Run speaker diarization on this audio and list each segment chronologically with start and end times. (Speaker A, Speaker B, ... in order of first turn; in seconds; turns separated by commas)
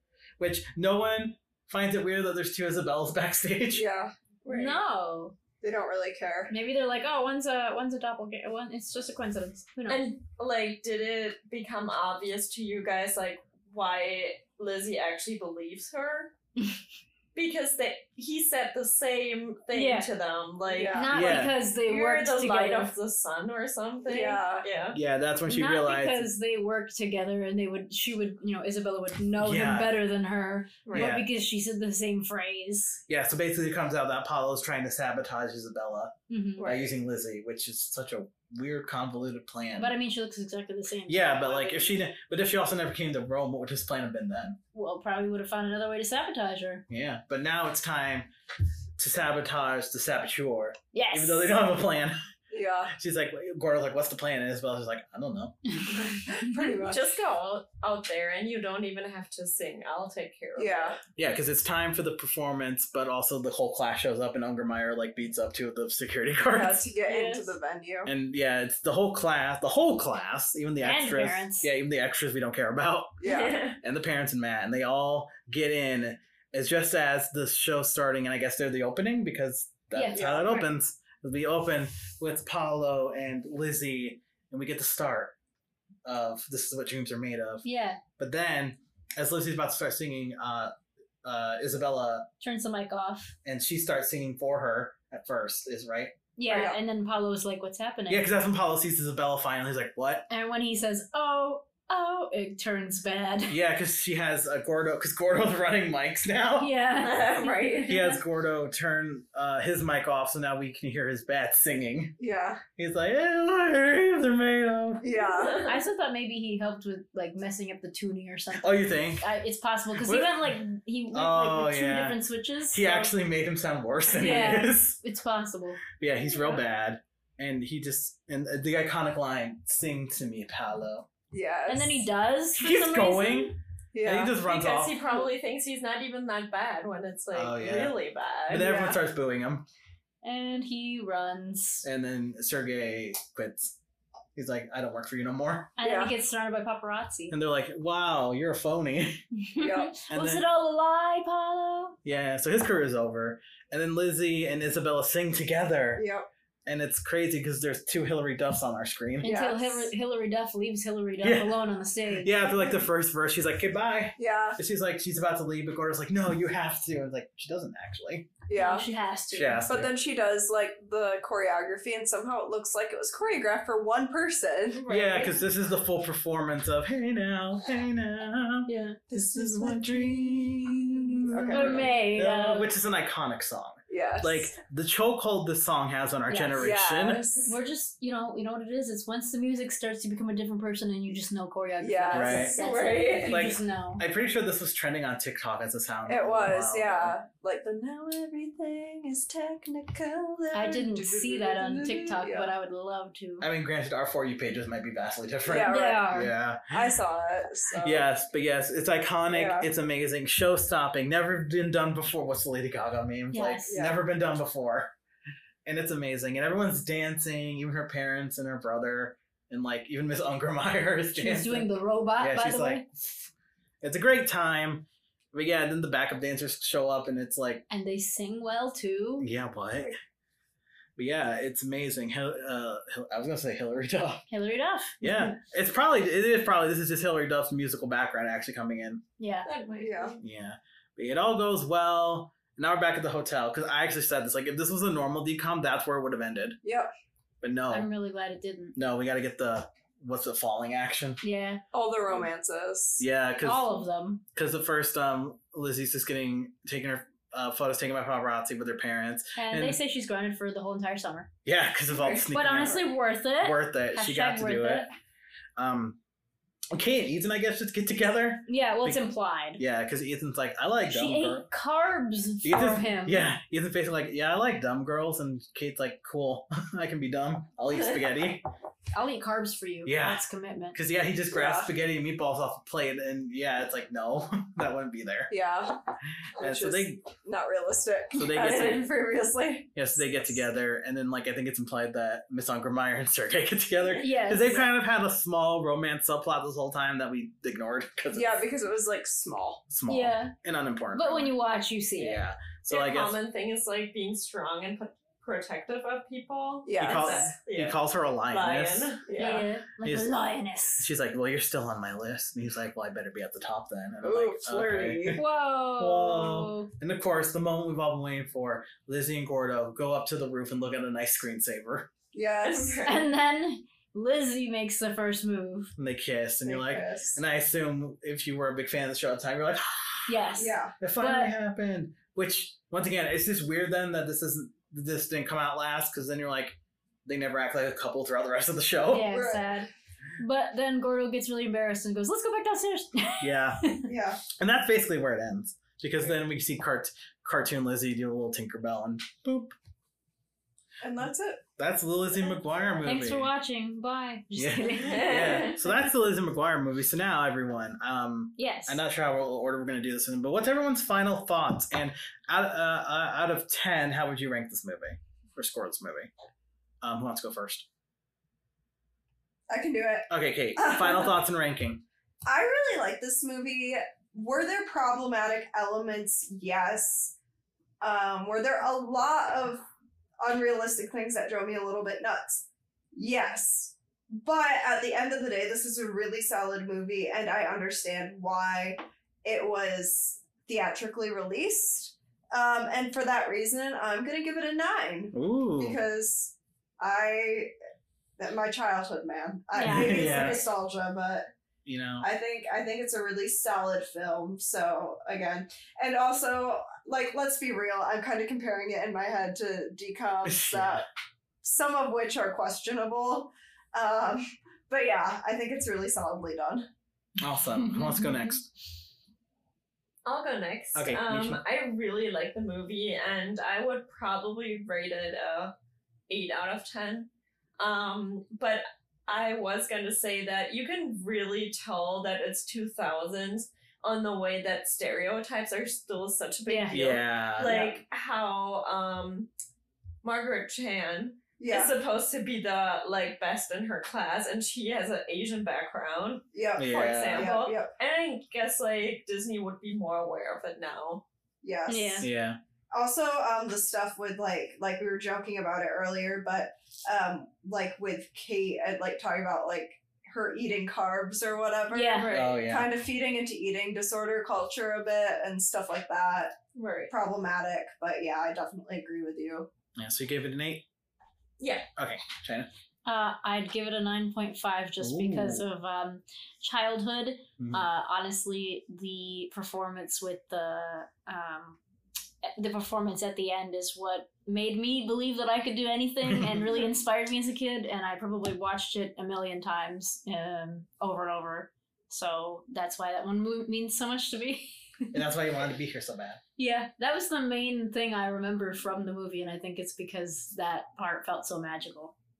Speaker A: 0.4-3.8, Speaker B: 3.7-4.7, Speaker C: 4.5-5.3, Speaker B: 5.6-6.5, Speaker C: 6.5-10.1, Speaker D: 9.9-16.3, Speaker D: 17.3-25.0, Speaker C: 19.7-20.1, Speaker B: 20.7-21.1, Speaker C: 20.9-22.9, Speaker A: 21.1-21.6, Speaker B: 24.1-24.6, Speaker A: 24.9-26.3, Speaker C: 25.5-33.0, Speaker A: 29.4-30.0, Speaker A: 30.9-31.3, Speaker A: 33.1-39.9, Speaker C: 36.3-36.7, Speaker B: 36.6-36.9, Speaker C: 39.8-41.6, Speaker A: 41.1-44.6, Speaker C: 44.7-46.8, Speaker A: 46.9-48.3, Speaker A: 49.0-52.2, Speaker C: 50.9-51.6, Speaker B: 52.5-52.9, Speaker A: 52.9-55.6, Speaker B: 56.3-57.2, Speaker D: 56.8-61.0, Speaker B: 60.6-61.0, Speaker A: 61.1-66.9, Speaker B: 66.5-68.1, Speaker C: 67.1-67.5, Speaker A: 68.0-73.2, Speaker C: 70.8-71.7, Speaker B: 73.2-73.6, Speaker D: 73.2-73.8, Speaker A: 73.8-85.3, Speaker C: 79.9-80.3, Speaker B: 80.1-80.7, Speaker A: 86.0-87.6, Speaker C: 87.6-88.0, Speaker A: 88.2-92.3, Speaker C: 92.4-93.3, Speaker A: 93.4-96.1, Speaker C: 96.3-98.3, Speaker B: 96.5-96.8, Speaker A: 98.1-100.3, Speaker C: 100.3-103.6, Speaker A: 103.5-106.7, Speaker C: 106.6-108.2, Speaker D: 107.0-108.0, Speaker A: 107.9-112.2, Speaker B: 112.2-112.6, Speaker A: 112.8-115.1, Speaker B: 115.0-115.7, Speaker D: 115.2-115.7, Speaker C: 115.6-123.1, Speaker A: 118.5-119.3, Speaker A: 119.9-120.5, Speaker A: 121.1-125.0, Speaker C: 124.1-125.8, Speaker A: 126.0-131.1, Speaker B: 131.3-132.0, Speaker C: 131.7-133.6, Speaker A: 132.6-135.2, Speaker B: 133.9-134.3, Speaker D: 134.4-138.7, Speaker A: 137.3-138.0, Speaker A: 138.5-139.7, Speaker B: 138.6-139.0, Speaker C: 140.2-141.8, Speaker A: 141.8-143.8, Speaker A: 144.3-145.8, Speaker C: 145.8-147.3, Speaker B: 145.8-146.1, Speaker A: 147.3-149.2, Speaker C: 149.4-152.0, Speaker B: 149.6-149.9, Speaker A: 150.1-150.5, Speaker A: 152.0-156.0, Speaker B: 155.9-156.3, Speaker A: 156.7-159.3, Speaker C: 159.2-162.4, Speaker B: 159.2-159.9, Speaker A: 161.2-161.6, Speaker A: 162.2-168.3, Speaker B: 164.2-164.6, Speaker B: 168.5-168.8, Speaker C: 168.5-169.7, Speaker A: 169.3-169.9, Speaker B: 169.7-174.8, Speaker D: 174.8-175.2, Speaker A: 174.9-187.2, Speaker C: 178.7-179.8, Speaker B: 181.2-181.9, Speaker C: 181.5-182.7, Speaker B: 183.9-184.5, Speaker C: 186.3-186.8, Speaker B: 186.6-187.5, Speaker C: 187.4-194.1, Speaker B: 191.8-193.2, Speaker A: 192.1-192.6, Speaker D: 192.5-193.5, Speaker A: 193.2-197.1, Speaker B: 196.1-202.5, Speaker C: 200.5-203.5, Speaker A: 203.4-206.9, Speaker B: 205.4-206.2, Speaker C: 205.6-206.3, Speaker B: 206.7-208.1, Speaker A: 207.8-214.9, Speaker B: 209.3-209.7, Speaker C: 213.3-213.8, Speaker B: 213.7-214.0, Speaker A: 215.6-222.9, Speaker C: 221.1-222.9, Speaker A: 223.8-227.6, Speaker C: 227.7-229.3, Speaker A: 229.2-230.0, Speaker A: 231.0-234.2, Speaker C: 234.3-235.3, Speaker A: 235.0-239.0, Speaker C: 239.2-239.5, Speaker D: 239.4-240.2, Speaker B: 239.8-240.1, Speaker A: 240.2-246.6, Speaker B: 246.6-246.9, Speaker A: 247.4-247.9, Speaker C: 247.7-248.8, Speaker A: 248.8-251.2, Speaker C: 251.2-251.6, Speaker B: 251.7-253.0, Speaker A: 253.0-253.7, Speaker C: 253.4-254.2, Speaker A: 254.3-259.8, Speaker C: 259.4-261.3, Speaker A: 261.4-264.9, Speaker B: 261.9-262.3, Speaker C: 262.3-264.9, Speaker A: 265.6-266.0, Speaker A: 266.7-271.5, Speaker C: 268.5-269.6, Speaker C: 270.9-273.2, Speaker A: 272.4-278.4, Speaker C: 278.9-280.8, Speaker A: 279.8-285.3, Speaker B: 281.3-281.7, Speaker B: 285.3-285.8, Speaker A: 286.4-287.1, Speaker B: 286.4-290.2, Speaker A: 288.1-288.9, Speaker A: 289.7-298.4, Speaker C: 294.0-294.7, Speaker B: 298.1-299.6, Speaker A: 299.7-301.3, Speaker C: 299.9-300.3, Speaker C: 300.9-302.2, Speaker A: 302.0-303.2, Speaker D: 302.7-309.5, Speaker B: 306.6-307.3, Speaker A: 306.8-309.0, Speaker C: 309.2-310.9, Speaker A: 309.8-310.1, Speaker A: 310.8-315.2, Speaker B: 314.0-315.2, Speaker C: 315.1-316.7, Speaker A: 315.8-321.9, Speaker B: 322.1-322.8, Speaker D: 322.4-323.1, Speaker C: 322.8-325.7, Speaker A: 325.8-330.3, Speaker B: 326.4-327.2, Speaker C: 330.1-331.3, Speaker B: 330.4-330.7, Speaker A: 330.8-339.2, Speaker C: 338.9-343.9, Speaker B: 339.1-339.6, Speaker A: 343.2-343.7, Speaker B: 343.9-344.2, Speaker A: 344.3-349.5, Speaker B: 350.8-351.4, Speaker A: 351.6-353.3, Speaker B: 352.2-352.8, Speaker C: 352.8-355.5, Speaker A: 354.3-366.1, Speaker D: 354.8-355.5, Speaker C: 358.4-358.8, Speaker A: 366.8-367.6, Speaker B: 369.5-371.1, Speaker A: 370.1-371.8, Speaker B: 372.2-377.1, Speaker B: 377.8-379.6, Speaker B: 380.2-382.4, Speaker B: 382.9-397.5, Speaker A: 395.1-395.8, Speaker B: 398.2-401.3, Speaker C: 399.5-400.3, Speaker A: 399.6-400.5, Speaker A: 401.6-402.1, Speaker B: 402.0-410.9, Speaker A: 410.2-410.9, Speaker B: 411.4-416.7, Speaker A: 417.2-418.5, Speaker D: 420.0-425.5, Speaker A: 420.7-421.4, Speaker D: 426.1-439.3, Speaker C: 436.5-436.8, Speaker A: 436.7-437.5, Speaker B: 437.4-437.8, Speaker D: 440.0-451.0, Speaker B: 441.4-441.7, Speaker B: 446.3-447.7, Speaker A: 446.6-447.4, Speaker B: 451.4-452.1, Speaker C: 451.7-452.1, Speaker A: 452.0-452.4, Speaker B: 452.7-466.4, Speaker C: 461.7-462.2, Speaker A: 462.1-462.7, Speaker D: 466.5-466.9, Speaker B: 466.9-469.5, Speaker A: 469.8-470.6, Speaker D: 471.4-471.6, Speaker A: 471.8-472.5, Speaker C: 472.9-481.6, Speaker A: 474.8-475.4, Speaker A: 477.4-477.6, Speaker C: 482.2-495.0, Speaker A: 486.0-486.6, Speaker A: 494.9-496.2, Speaker C: 496.4-501.9